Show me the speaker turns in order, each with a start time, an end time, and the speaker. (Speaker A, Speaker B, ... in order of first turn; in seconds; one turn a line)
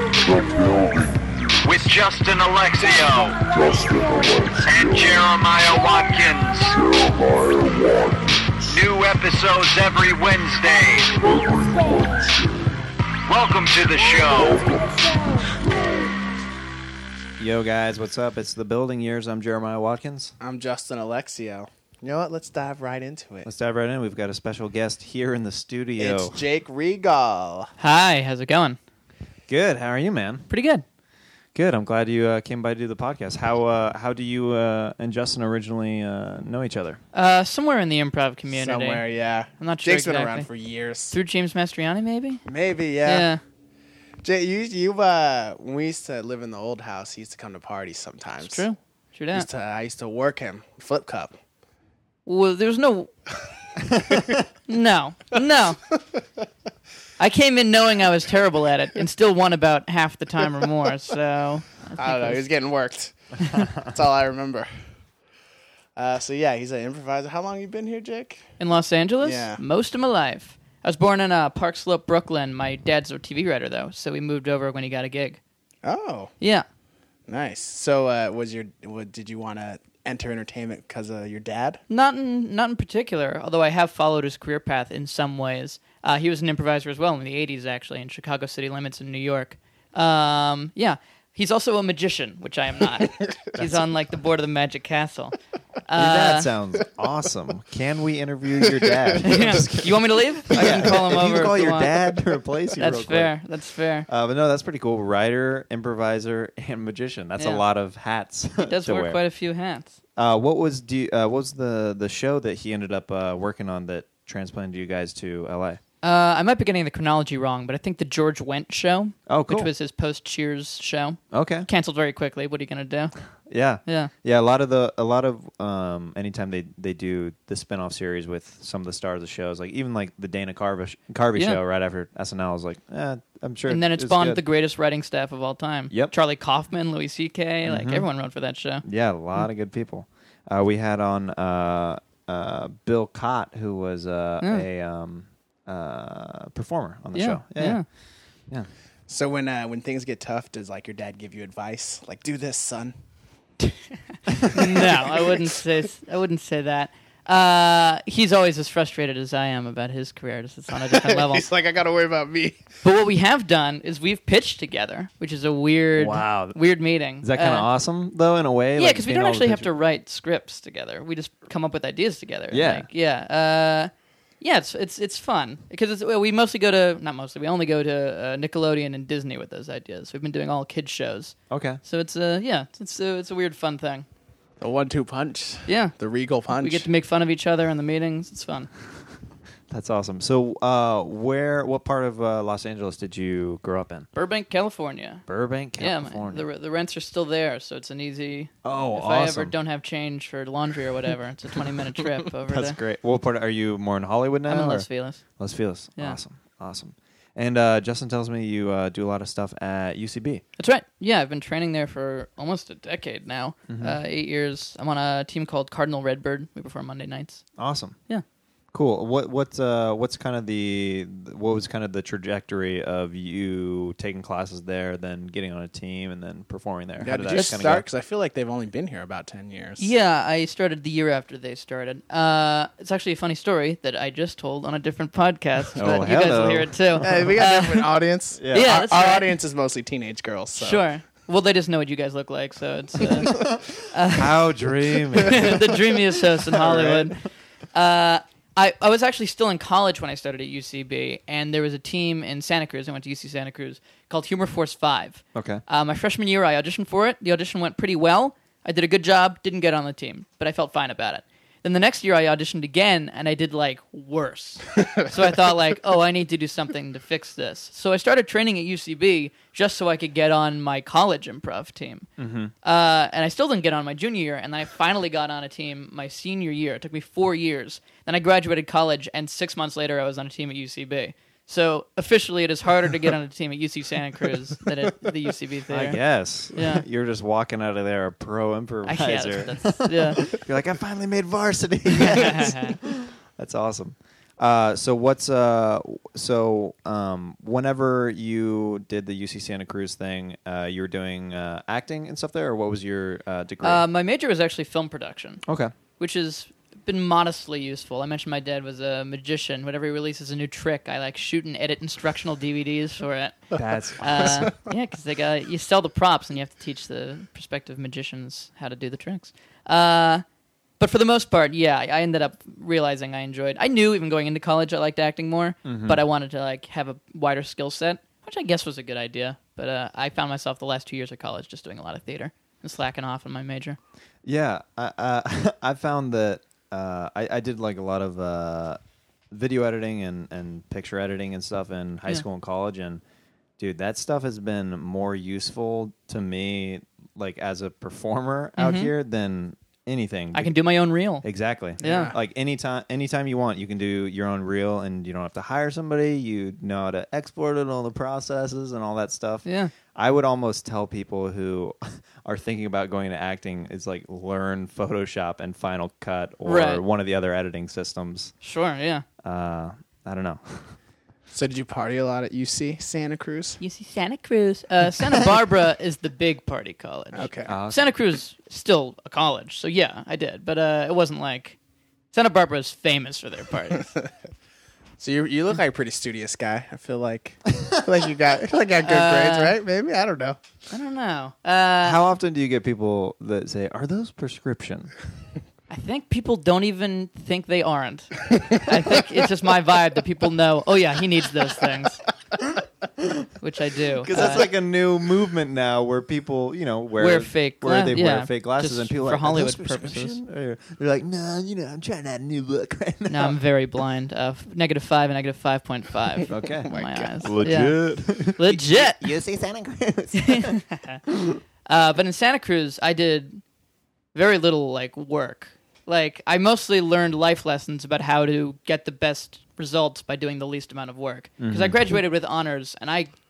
Speaker A: 0.2-1.3
Speaker B: 1.6-3.4
Speaker A: 3.4-5.1
Speaker B: 4.6-6.8
Speaker A: 6.8-8.7
Speaker B: 8.7-11.2
Speaker A: 11.2-12.6
Speaker B: 13.3-14.8
Speaker A: 14.7-16.1
Speaker C: 17.4-20.3
Speaker D: 20.4-23.5
Speaker C: 23.4-26.4
Speaker D: 26.0-27.7
Speaker E: 27.8-28.8
Speaker C: 29.5-30.5
Speaker E: 30.5-30.8
Speaker C: 31.5-37.0
Speaker E: 37.1-39.0
Speaker D: 38.5-41.1
Speaker E: 39.6-40.5
Speaker E: 41.1-42.4
Speaker D: 42.5-43.3
Speaker E: 43.0-43.4
Speaker D: 44.2-48.6
Speaker E: 48.4-49.5
Speaker D: 49.3-51.4
Speaker E: 52.2-53.1
Speaker E: 54.7-55.8
Speaker E: 57.2-62.4
Speaker D: 62.0-64.7
Speaker D: 66.0-68.5
Speaker E: 68.6-75.4
Speaker D: 69.2-69.6
Speaker D: 75.8-76.3
Speaker E: 76.4-76.7
Speaker D: 77.3-81.8
Speaker E: 81.9-96.5
Speaker C: 93.5-93.9
Speaker C: 95.9-100.0
Speaker E: 99.2-102.0
Speaker C: 100.5-103.4
Speaker E: 102.8-104.1
Speaker C: 104.1-109.2
Speaker E: 107.4-107.6
Speaker E: 108.6-110.0
Speaker C: 110.2-115.8
Speaker E: 116.0-123.1
Speaker C: 119.3-119.7
Speaker C: 121.3-121.7
Speaker C: 123.5-134.4
Speaker E: 123.8-124.1
Speaker E: 133.7-138.8
Speaker C: 137.7-138.1
Speaker C: 138.8-147.8
Speaker E: 144.4-144.7
Speaker E: 147.1-147.8
Speaker D: 149.1-152.9
Speaker E: 154.5-161.4
Speaker D: 154.5-155.3
Speaker D: 160.8-162.7
Speaker E: 162.8-167.7
Speaker C: 165.9-166.6
Speaker C: 167.2-169.7
Speaker E: 168.8-184.1
Speaker C: 172.5-172.9
Speaker C: 181.5-181.8
Speaker D: 184.6-186.9
Speaker E: 185.7-185.9
Speaker E: 186.6-188.7
Speaker C: 189.7-194.1
Speaker E: 194.1-195.2
Speaker C: 195.3-196.4
Speaker E: 195.8-202.8
Speaker C: 198.6-199.5
Speaker C: 202.4-210.4
Speaker E: 204.5-205.2
Speaker E: 210.6-217.4
Speaker C: 213.7-214.0
Speaker C: 217.6-218.0
Speaker C: 218.7-227.8
Speaker D: 227.0-229.9
Speaker E: 227.3-227.7
Speaker E: 229.8-237.9
Speaker C: 235.8-237.4
Speaker D: 237.0-240.9
Speaker C: 238.4-238.7
Speaker E: 238.5-239.3
Speaker E: 240.6-244.4
Speaker C: 243.1-245.8
Speaker E: 245.2-272.1
Speaker C: 246.5-247.1
Speaker C: 255.3-255.6
Speaker C: 272.2-272.5
Speaker E: 272.6-286.0
Speaker C: 285.7-303.8
Speaker E: 286.5-286.8
Speaker E: 288.9-290.3
Speaker E: 291.9-292.8
Speaker E: 303.6-305.4
Speaker C: 305.4-305.7
Speaker E: 306.0-320.2
Speaker C: 313.5-314.5
Speaker E: 320.8-333.8
Speaker C: 325.6-326.0
Speaker C: 334.2-338.8
Speaker C: 339.3-343.0
Speaker C: 343.6-350.5
Speaker E: 348.6-348.9
Speaker E: 350.3-351.2
Speaker C: 351.2-368.3
Speaker E: 351.8-352.1
Speaker D: 351.8-352.1
Speaker E: 359.4-359.7
Speaker E: 366.4-366.8
Speaker E: 368.4-369.0
Speaker C: 369.2-370.8
Speaker D: 371.3-373.6
Speaker E: 373.6-381.6
Speaker D: 377.1-377.5
Speaker C: 377.5-377.9
Speaker E: 382.1-383.9
Speaker D: 385.0-390.4
Speaker E: 388.8-389.6
Speaker E: 390.7-392.0
Speaker C: 391.8-394.9
Speaker E: 395.7-402.0
Speaker C: 402.4-403.3
Speaker E: 403.4-404.5
Speaker C: 404.0-413.4
Speaker E: 407.0-410.2
Speaker E: 413.1-419.0
Speaker C: 416.3-421.4
Speaker D: 416.4-417.4
Speaker E: 420.1-421.0
Speaker E: 421.6-423.4
Speaker E: 424.1-433.1
Speaker C: 431.4-431.8